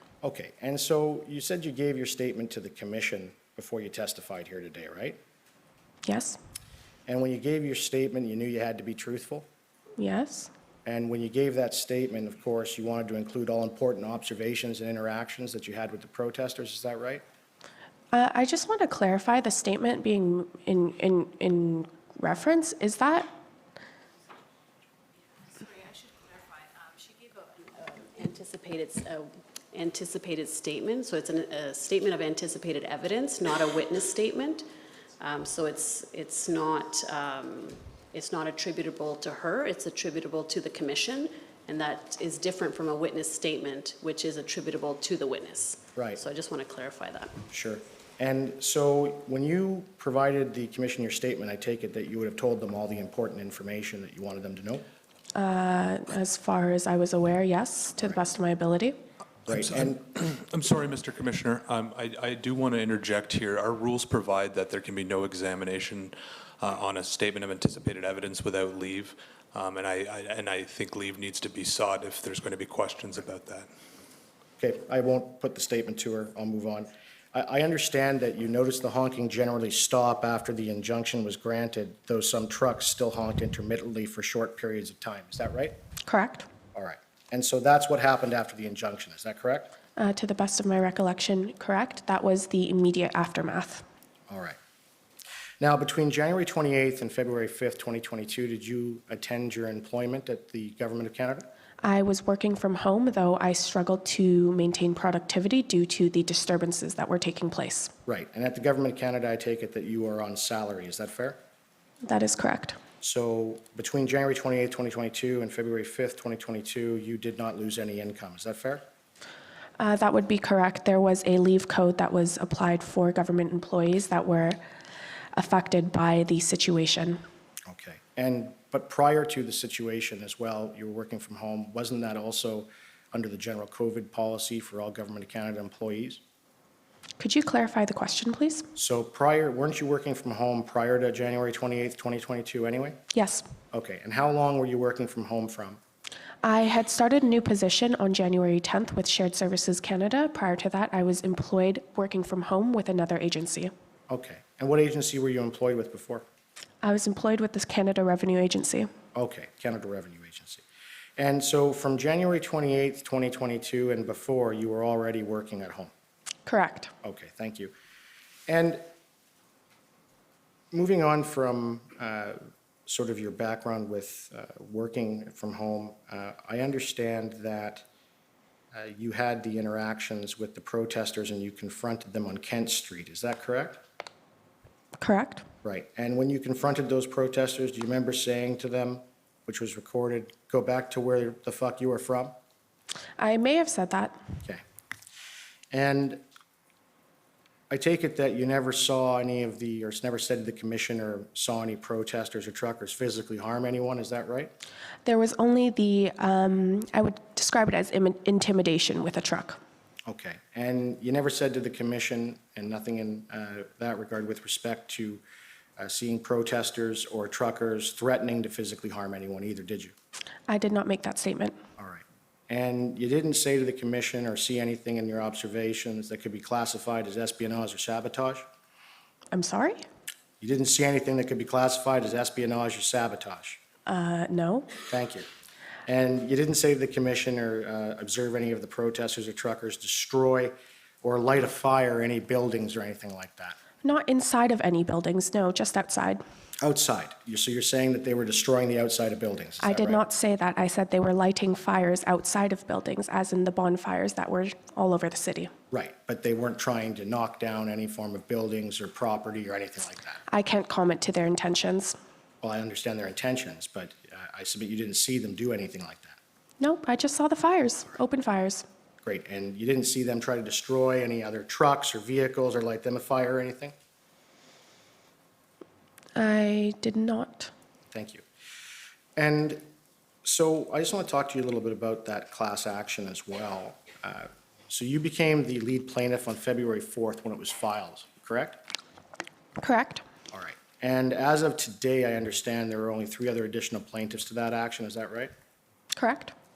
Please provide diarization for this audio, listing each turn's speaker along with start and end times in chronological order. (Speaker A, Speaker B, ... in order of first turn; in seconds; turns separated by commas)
Speaker A: 0.2-5.2, Speaker B: 6.0-6.4, Speaker A: 7.1-9.5, Speaker B: 10.0-10.5, Speaker A: 10.8-17.2, Speaker B: 18.1-23.3, Speaker C: 27.6-34.7, Speaker C: 35.2-47.4, Speaker A: 45.9-46.2, Speaker A: 47.5-54.9, Speaker B: 55.3-59.0, Speaker A: 59.5-60.0, Speaker D: 60.5-73.7, Speaker A: 74.6-85.8, Speaker B: 86.0-86.5, Speaker A: 86.7-89.7, Speaker B: 90.0-93.8, Speaker A: 94.3-94.6, Speaker A: 95.6-101.5, Speaker B: 101.8-107.9, Speaker A: 108.1-111.4, Speaker B: 112.0-112.8, Speaker A: 113.0-118.8, Speaker B: 119.8-124.6, Speaker B: 125.3-127.2, Speaker A: 127.7-136.2, Speaker B: 137.2-138.7, Speaker A: 138.8-143.0, Speaker B: 143.1-143.5, Speaker A: 143.7-145.8, Speaker B: 146.4-153.7, Speaker A: 154.1-156.2, Speaker B: 156.8-158.9, Speaker A: 159.1-160.6, Speaker A: 161.2-165.9, Speaker B: 166.4-166.9, Speaker A: 167.0-167.7, Speaker A: 168.5-168.8, Speaker A: 170.7-177.8, Speaker A: 178.7-183.8, Speaker B: 185.0-185.4, Speaker A: 185.6-192.3, Speaker B: 193.2-194.2, Speaker A: 195.7-196.2, Speaker A: 197.7-204.5, Speaker B: 205.0-209.6, Speaker A: 210.1-215.2, Speaker A: 215.8-219.9, Speaker B: 220.5-221.6, Speaker A: 221.8-228.4, Speaker B: 229.3-229.8, Speaker A: 230.4-233.6, Speaker B: 233.8-234.7, Speaker A: 234.9-235.3, Speaker A: 235.8-243.6, Speaker B: 243.8-246.2, Speaker A: 246.6-250.0, Speaker B: 249.6-255.5, Speaker A: 255.7-260.2, Speaker B: 260.3-261.9, Speaker A: 262.4-266.2, Speaker B: 266.6-268.6, Speaker A: 269.0-273.7, Speaker B: 276.1-277.5, Speaker A: 277.9-278.2, Speaker A: 279.1-279.6, Speaker A: 280.2-288.6, Speaker B: 289.6-290.0, Speaker A: 290.3-295.3, Speaker B: 295.9-296.3